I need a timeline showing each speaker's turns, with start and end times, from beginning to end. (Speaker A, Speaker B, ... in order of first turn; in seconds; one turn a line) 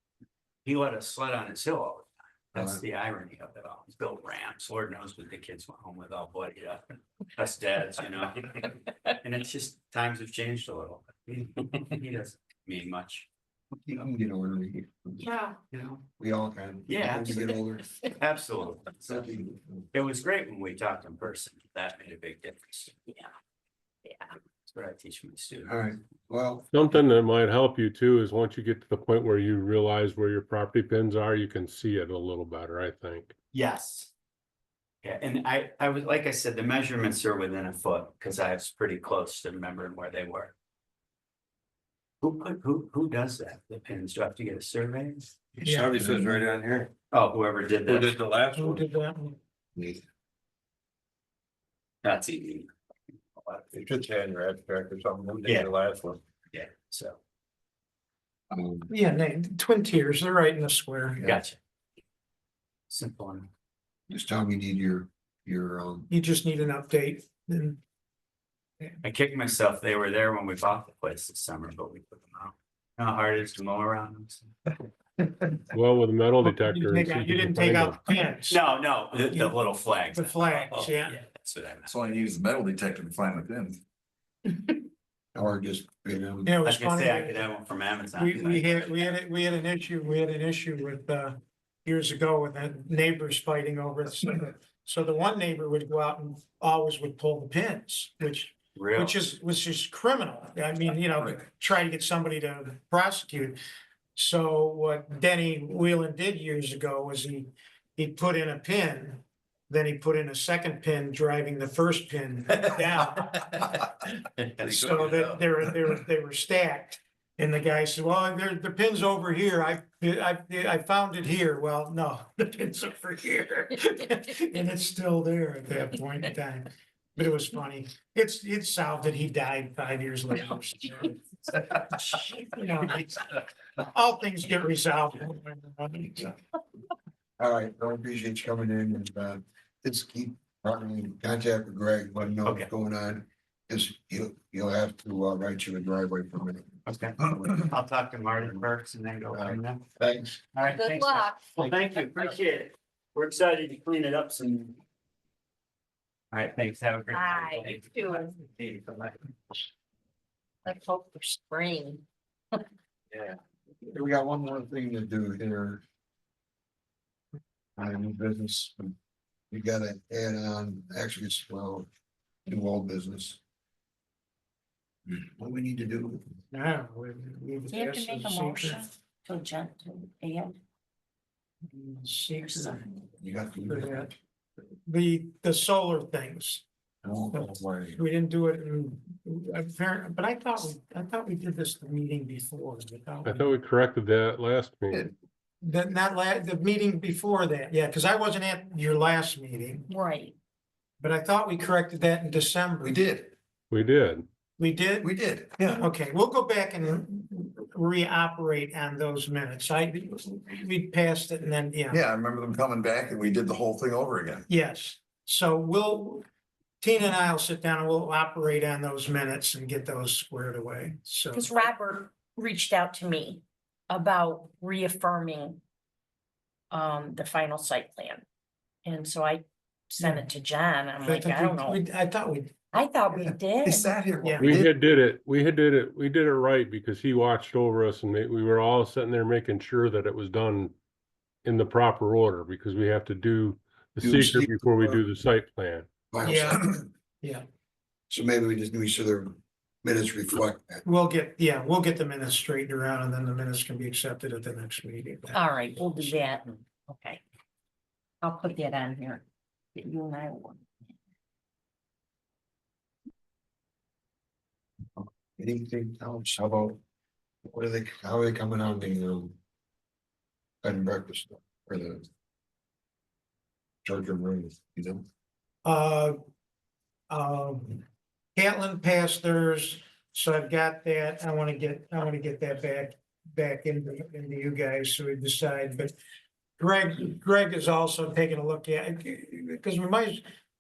Speaker A: 0.7-6.8
Speaker B: 2.5-2.8
Speaker A: 7.4-13.3
Speaker B: 13.8-15.3
Speaker C: 15.2-15.6
Speaker A: 15.7-16.0
Speaker B: 16.2-17.9
Speaker A: 16.9-17.3
Speaker A: 18.2-19.3
Speaker B: 19.1-19.9
Speaker A: 19.9-22.9
Speaker A: 24.7-25.8
Speaker B: 25.7-26.7
Speaker D: 26.7-33.3
Speaker A: 33.5-34.1
Speaker A: 35.0-40.5
Speaker A: 42.2-45.4
Speaker E: 45.6-46.1
Speaker B: 45.6-46.5
Speaker F: 45.7-46.9
Speaker A: 47.1-48.2
Speaker F: 47.9-48.8
Speaker B: 48.0-48.5
Speaker E: 48.5-49.4
Speaker B: 49.8-50.0
Speaker A: 52.0-52.7
Speaker B: 53.7-56.2
Speaker F: 55.1-56.1
Speaker A: 55.5-55.7
Speaker A: 56.5-57.2
Speaker B: 58.5-58.9
Speaker E: 58.9-61.2
Speaker A: 61.2-61.6
Speaker A: 62.9-63.5
Speaker B: 64.1-66.1
Speaker E: 66.1-67.8
Speaker A: 69.0-74.5
Speaker D: 75.7-78.0
Speaker E: 76.5-78.6
Speaker A: 78.5-82.0
Speaker E: 79.3-79.6
Speaker E: 80.1-81.2
Speaker G: 81.8-83.8
Speaker B: 85.3-86.6
Speaker E: 86.4-87.5
Speaker A: 86.7-89.1
Speaker E: 88.2-103.6
Speaker A: 98.8-99.2
Speaker E: 104.2-114.0
Speaker A: 113.2-113.5
Speaker A: 114.3-115.3
Speaker E: 114.6-131.2
Speaker E: 132.3-136.4
Speaker B: 137.4-146.7
Speaker A: 142.4-142.7
Speaker A: 146.9-149.8
Speaker B: 149.3-150.4
Speaker A: 150.5-154.8
Speaker C: 150.6-152.0
Speaker A: 156.3-159.1
Speaker C: 157.1-158.3
Speaker C: 160.7-162.0
Speaker B: 163.8-165.8
Speaker B: 167.8-168.9
Speaker B: 169.5-171.9
Speaker B: 172.5-173.4
Speaker B: 175.1-176.2
Speaker E: 176.5-178.8
Speaker C: 177.7-180.6
Speaker E: 181.7-183.0
Speaker C: 182.4-182.9
Speaker B: 183.2-184.1
Speaker E: 183.7-184.1
Speaker E: 184.9-186.6
Speaker B: 187.0-188.0
Speaker E: 187.3-193.6
Speaker D: 193.2-195.1
Speaker E: 195.6-199.9
Speaker C: 199.9-200.3
Speaker E: 201.0-203.0
Speaker G: 202.8-203.3
Speaker D: 203.7-204.3
Speaker E: 204.6-205.2
Speaker G: 205.0-205.8
Speaker E: 205.7-212.0
Speaker G: 211.9-214.4
Speaker E: 214.5-216.2
Speaker E: 216.8-221.5
Speaker C: 221.3-225.6
Speaker C: 226.7-228.2
Speaker C: 228.8-231.8
Speaker E: 230.0-230.3
Speaker E: 231.0-232.6
Speaker C: 232.7-234.0
Speaker G: 233.2-234.7
Speaker E: 234.2-234.6
Speaker D: 234.4-240.7
Speaker D: 241.4-245.9
Speaker B: 244.0-245.1
Speaker B: 246.1-246.8
Speaker E: 246.2-246.7
Speaker B: 248.1-250.8
Speaker E: 250.8-256.6
Speaker C: 255.3-257.2
Speaker C: 258.2-260.9
Speaker B: 265.0-266.8
Speaker B: 267.4-269.4
Speaker B: 270.6-272.1
Speaker B: 273.9-275.0
Speaker E: 275.6-276.2
Speaker E: 277.1-277.8
Speaker E: 278.4-285.9
Speaker E: 286.6-290.2